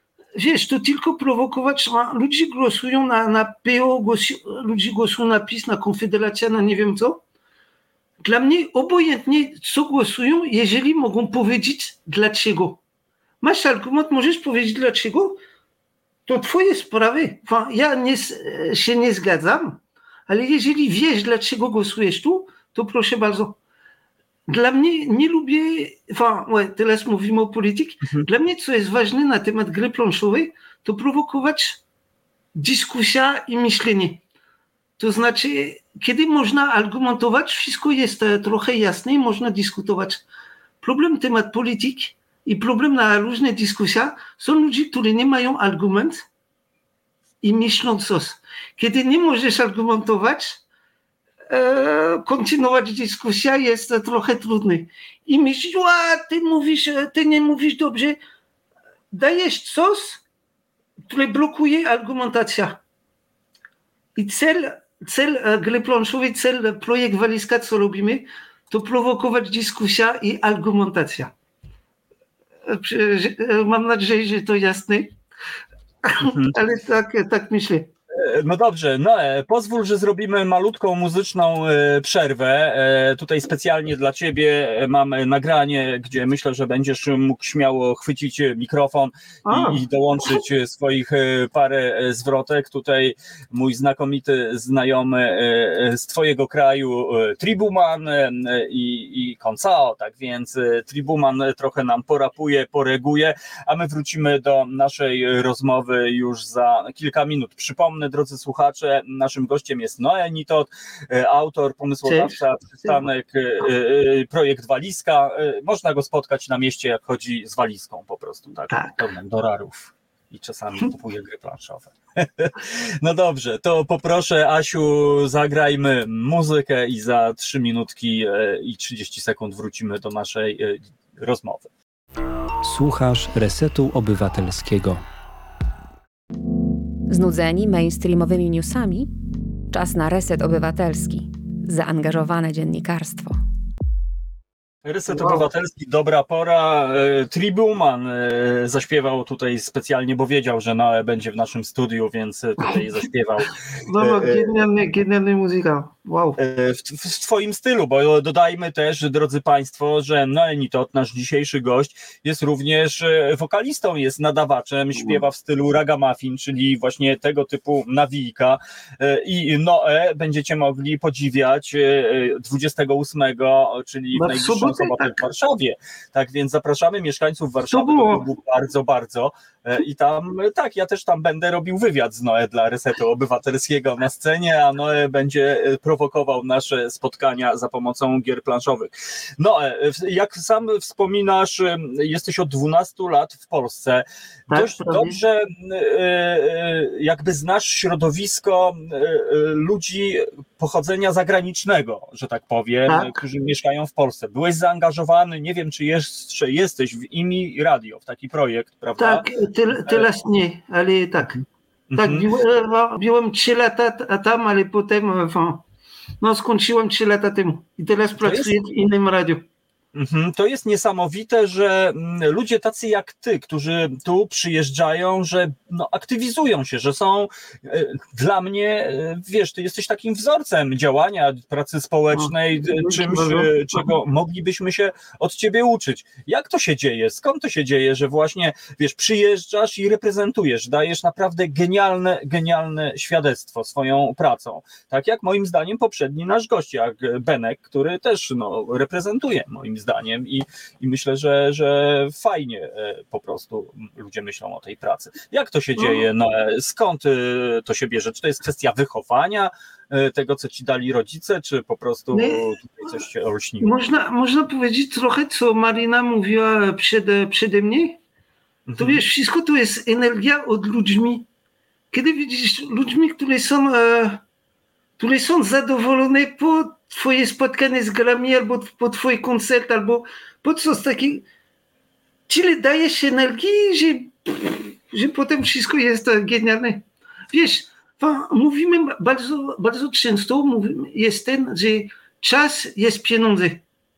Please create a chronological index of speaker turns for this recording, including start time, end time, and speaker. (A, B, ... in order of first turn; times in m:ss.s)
0:00.4-0:07.2 A
0:08.2-0:12.8 A
0:13.4-0:15.4 A
0:16.3-0:23.6 A
0:24.5-0:31.8 A
0:32.6-0:34.2 A
0:35.0-0:40.2 A
0:40.8-0:46.2 A
0:47.4-0:50.6 A
0:51.5-0:58.2 A
0:59.1-1:00.2 A
1:01.1-1:02.8 A
1:04.2-1:11.3 A
1:12.7-1:15.2 A
1:16.0-1:17.9 A
1:16.2-1:16.6 B
1:18.1-2:11.7 B
1:29.5-1:30.4 A
1:52.1-1:53.0 A
1:58.7-1:59.0 A
2:12.6-2:15.0 C
2:17.1-2:19.1 D
2:19.7-2:23.4 D
2:24.8-2:34.6 B
2:25.1-2:25.5 A
2:33.9-2:36.4 A
2:36.4-3:29.3 B
2:45.0-2:45.2 A
2:54.2-2:55.2 A
2:57.7-2:58.2 A
3:14.5-3:15.2 A
3:22.9-3:23.2 A
3:29.0-3:31.4 A
3:31.2-3:32.3 B
3:32.0-3:35.6 A
3:36.2-3:39.4 A
3:38.2-3:38.6 B
3:39.9-4:23.8 B
3:52.1-3:53.9 A
4:15.8-4:16.0 A
4:22.1-4:22.4 A
4:23.6-4:28.0 A
4:28.7-4:29.0 B
4:28.8-4:31.3 A
4:31.9-4:34.2 A
4:35.0-4:41.3 A
4:42.3-4:53.6 A